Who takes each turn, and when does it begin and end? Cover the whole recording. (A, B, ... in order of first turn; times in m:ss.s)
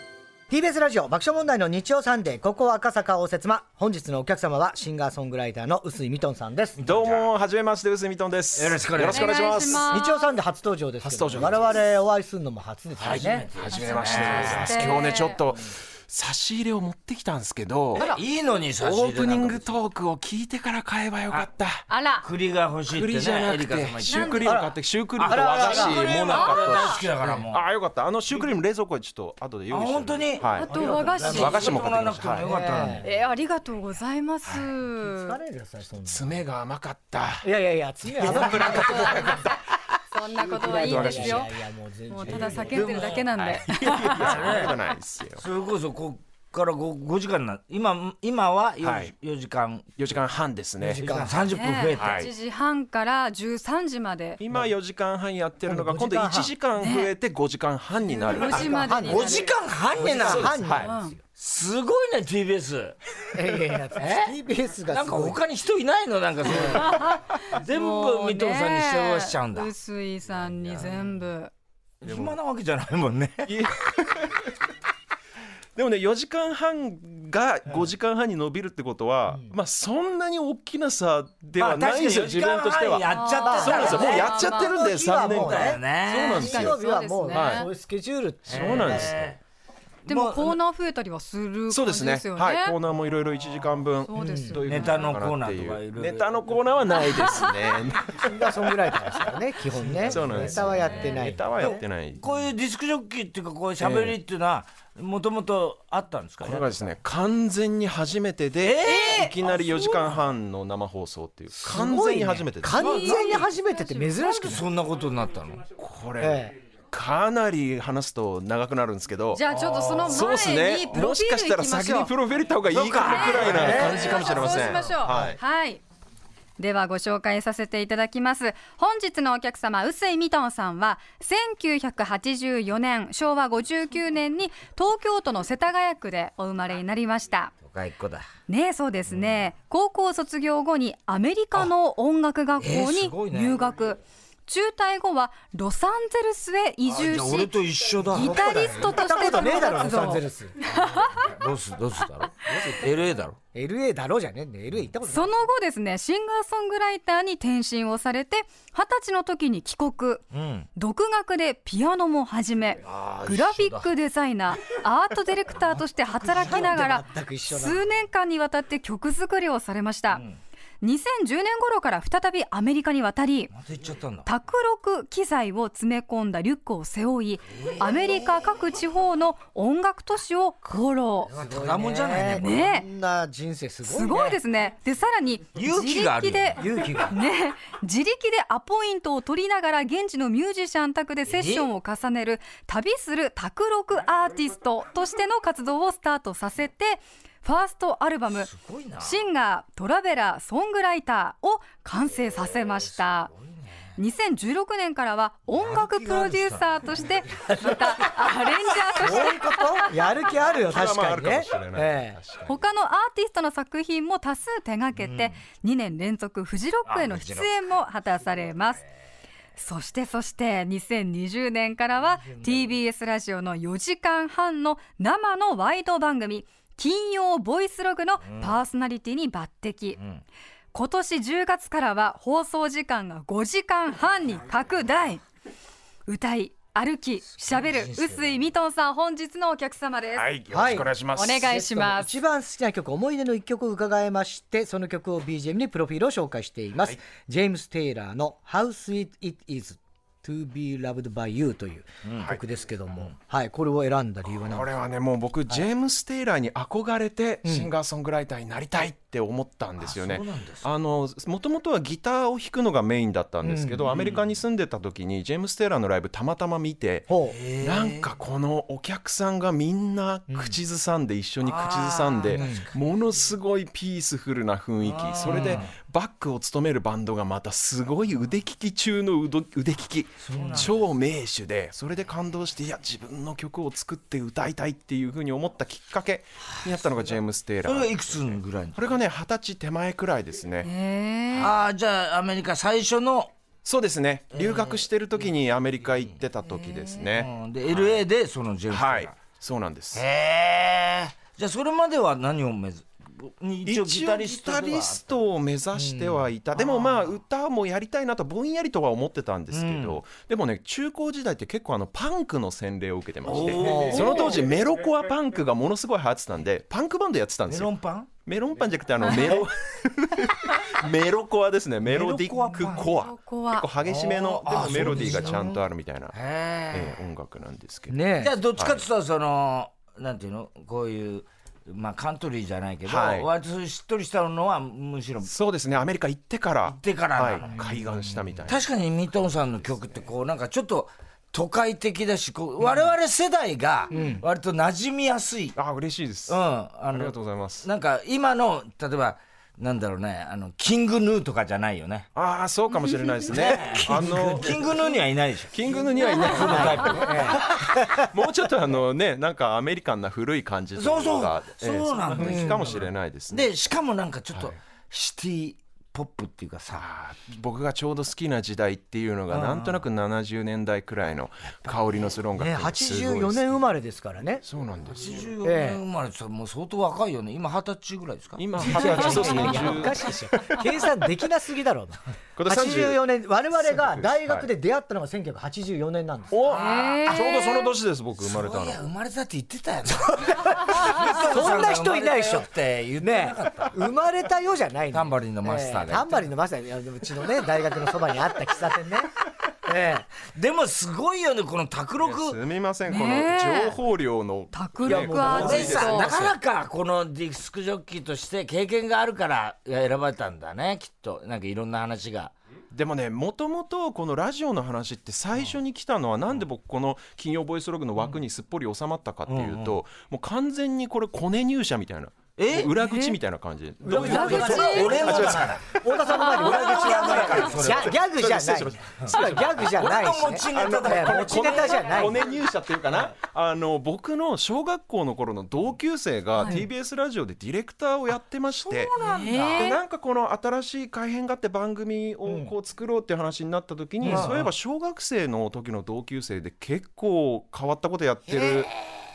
0:00.5-0:06.8 A
0:06.8-0:07.3 B
0:06.8-0:10.0 C
0:08.5-0:09.5 B
0:09.1-0:10.3 D
0:09.9-0:13.4 A
0:11.0-0:11.9 C
0:13.0-0:18.1 C
0:13.0-0:15.1 B
0:13.7-0:15.4 D
0:17.9-0:19.8 B
0:18.8-0:21.9 C
0:21.9-0:22.2 D
0:22.2-0:24.5 B
0:22.9-0:32.4 C
0:24.0-0:24.5 D
0:24.4-0:26.1 A
0:25.2-0:27.6 B
0:26.2-0:27.0 D
0:29.7-0:33.0 B
0:30.5-0:31.8 D
0:30.7-0:31.7 A
0:32.4-0:33.1 A
0:33.0-0:35.4 D
0:35.0-0:36.4 A
0:36.0-0:37.5 C
0:37.4-0:39.5 A
0:38.1-0:39.7 C
0:38.8-0:39.3 D
0:40.1-0:41.5 D
0:40.3-0:43.1 A
0:40.5-0:41.5 C
0:42.1-0:44.4 D
0:42.3-0:42.8 C
0:42.6-0:44.7 B
0:43.6-0:45.4 C
0:45.4-0:50.0 B
0:48.8-0:49.1 C
0:50.0-0:51.1 C
0:50.8-0:51.5 A
0:50.8-0:52.3 B
0:51.5-0:54.4 D
0:52.0-0:52.3 C
0:54.4-0:59.0 C
0:55.6-0:56.5 A
0:56.8-0:57.1 D
0:58.2-0:59.6 D
0:58.5-1:00.7 B
0:58.7-1:01.2 A
1:00.2-1:00.9 C
1:00.7-1:01.1 D
1:01.4-1:03.0 B
1:03.3-1:05.4 A
1:03.9-1:04.4 B
1:04.9-1:07.0 B
1:06.6-1:11.5 D
1:07.5-1:09.7 B
1:10.6-1:11.0 B
1:12.0-1:13.6 B
1:12.0-1:12.4 C
1:13.5-1:14.5 C
1:15.8-1:26.7 C
1:19.3-1:19.5 A
1:21.6-1:24.5 B
1:23.1-1:24.8 D
1:23.4-1:29.2 A
1:25.1-1:26.7 B
1:26.2-1:27.7 D
1:27.3-1:27.6 C
1:28.5-1:29.4 B
1:28.5-1:29.3 C
1:30.0-1:32.8 D
1:30.1-1:30.6 B
1:31.7-1:38.7 C
1:34.0-1:35.2 D
1:34.2-1:34.6 A
1:34.7-1:36.3 B
1:36.9-1:37.5 D
1:38.2-1:41.8 A
1:39.8-1:47.0 B
1:40.0-1:42.4 C
1:40.8-1:41.2 D
1:43.8-1:44.2 C
1:46.4-1:52.8 C
1:48.6-1:50.2 B
1:51.6-1:54.6 A
1:52.7-1:54.6 D
1:52.9-1:53.4 B
1:54.4-1:55.6 B
1:55.8-1:59.4 C
1:56.2-1:56.5 A
1:59.3-2:02.1 D
1:59.5-2:00.2 B
2:00.0-2:05.4 C
2:02.7-2:04.8 B
2:03.0-2:05.8 D
2:03.5-2:04.0 A
2:06.6-2:17.5 D
2:17.6-2:18.3 B
2:18.5-2:31.3 D
2:19.1-2:19.4 B
2:22.6-2:23.6 B
2:26.9-2:28.4 B
2:28.1-2:30.6 A
2:30.7-2:33.4 B
2:33.5-2:35.4 A
2:35.1-2:50.2 D
2:40.3-2:40.7 B
2:42.8-2:43.9 B
2:46.2-2:46.7 B
2:46.2-2:47.9 A
2:50.1-2:50.4 B
2:50.8-2:53.5 D
2:53.5-2:54.3 B
2:54.2-3:01.3 D
2:57.5-2:58.2 B
3:01.3-3:02.6 B
3:01.3-3:04.4 A
3:02.4-3:02.9 D
3:03.8-3:18.5 D
3:05.5-3:06.6 B
3:06.6-3:07.2 A
3:11.2-3:11.7 B
3:18.3-3:19.2 B
3:19.0-3:23.3 D
3:22.4-3:24.0 B
3:24.0-3:29.9 D
3:25.5-3:27.7 B
3:28.9-3:32.2 A
3:30.4-3:32.6 C
3:32.5-3:38.8 D
3:35.0-3:35.3 B
3:36.8-3:37.5 B
3:39.6-3:50.0 D
3:42.3-3:42.7 B
3:48.2-3:48.6 B
3:50.0-3:50.2 B
3:50.7-3:55.2 D
3:56.0-4:00.3 D
3:57.3-3:58.5 B
4:00.1-4:01.5 C
4:00.5-4:14.7 A
4:01.0-4:02.2 D
4:12.0-4:12.3 B
4:14.3-4:50.7 C
4:17.4-4:17.7 A
4:19.8-4:20.7 B
4:23.4-4:24.1 A
4:23.9-4:24.2 B
4:27.1-4:27.4 A
4:27.2-4:28.1 B
4:30.3-4:30.6 A
4:31.4-4:32.8 B
4:32.3-4:32.6 A
4:34.8-4:35.7 B
4:40.2-4:40.8 B
4:47.6-4:48.8 B
4:50.6-4:51.5 D
4:51.3-4:53.3 B
4:53.6-4:58.0 C
4:54.3-4:55.3 B
4:56.4-4:57.1 D
4:57.1-4:59.1 B
4:58.7-5:00.0 C
4:59.9-5:05.2 B
5:03.6-5:26.1 C
5:05.7-5:06.3 A
5:06.6-5:07.1 B
5:09.5-5:10.0 B
5:13.2-5:14.4 B
5:13.5-5:14.3 A
5:17.5-5:18.1 B
5:19.0-5:19.4 D
5:19.0-5:19.4 B
5:21.8-5:22.8 B
5:22.3-5:23.7 D
5:23.8-5:25.4 B
5:24.5-5:25.6 A
5:26.1-5:27.0 B
5:26.7-5:27.9 C
5:27.9-5:28.3 A
5:28.2-5:35.3 B
5:28.5-5:28.8 C
5:32.8-5:33.3 C
5:35.3-5:38.6 C
5:36.6-5:37.6 B
5:37.4-5:38.4 A
5:38.5-5:45.6 B
5:43.9-5:44.2 D
5:43.9-5:44.2 A
5:45.5-5:47.7 C
5:46.3-5:52.1 B
5:52.1-5:54.9 C
5:52.7-5:53.3 D
5:53.3-5:57.5 B
5:54.0-5:54.5 A
5:55.5-6:03.5 C
5:56.0-5:56.7 D
5:56.4-5:58.1 A
6:00.8-6:06.9 B
6:02.2-6:02.8 A
6:06.7-6:13.7 C
6:09.3-6:09.8 B
6:12.4-6:14.4 A
6:14.4-6:15.3 C
6:14.9-6:19.9 B
6:15.4-6:15.8 A
6:18.4-6:20.6 C
6:18.6-6:26.4 A
6:18.8-6:19.6 D
6:22.4-6:23.0 C
6:23.6-6:24.5 C
6:26.3-6:28.8 C
6:26.4-6:27.3 B
6:26.5-6:27.7 D
6:28.2-6:33.8 B
6:30.3-6:39.1 A
6:34.9-6:36.3 B
6:39.6-6:40.1 A
6:40.3-6:42.4 B
6:42.0-6:46.4 C
6:42.8-6:43.8 D
6:44.5-6:46.2 D
6:44.8-6:45.8 A
6:45.2-6:52.3 B
6:52.7-7:05.7 C
6:59.3-6:59.8 B
7:02.4-7:02.7 B
7:02.8-7:03.2 D
7:03.8-7:12.3 A
7:03.9-7:05.4 D
7:03.9-7:08.0 B
7:06.1-7:07.4 D
7:06.5-7:09.7 C
7:09.1-7:11.9 B
7:10.5-7:18.9 C
7:16.4-7:16.6 D
7:18.5-7:19.8 B
7:19.0-7:19.8 D
7:19.6-7:28.7 C
7:22.2-7:22.5 A
7:24.0-7:24.3 A
7:24.0-7:24.5 B
7:28.3-7:29.0 B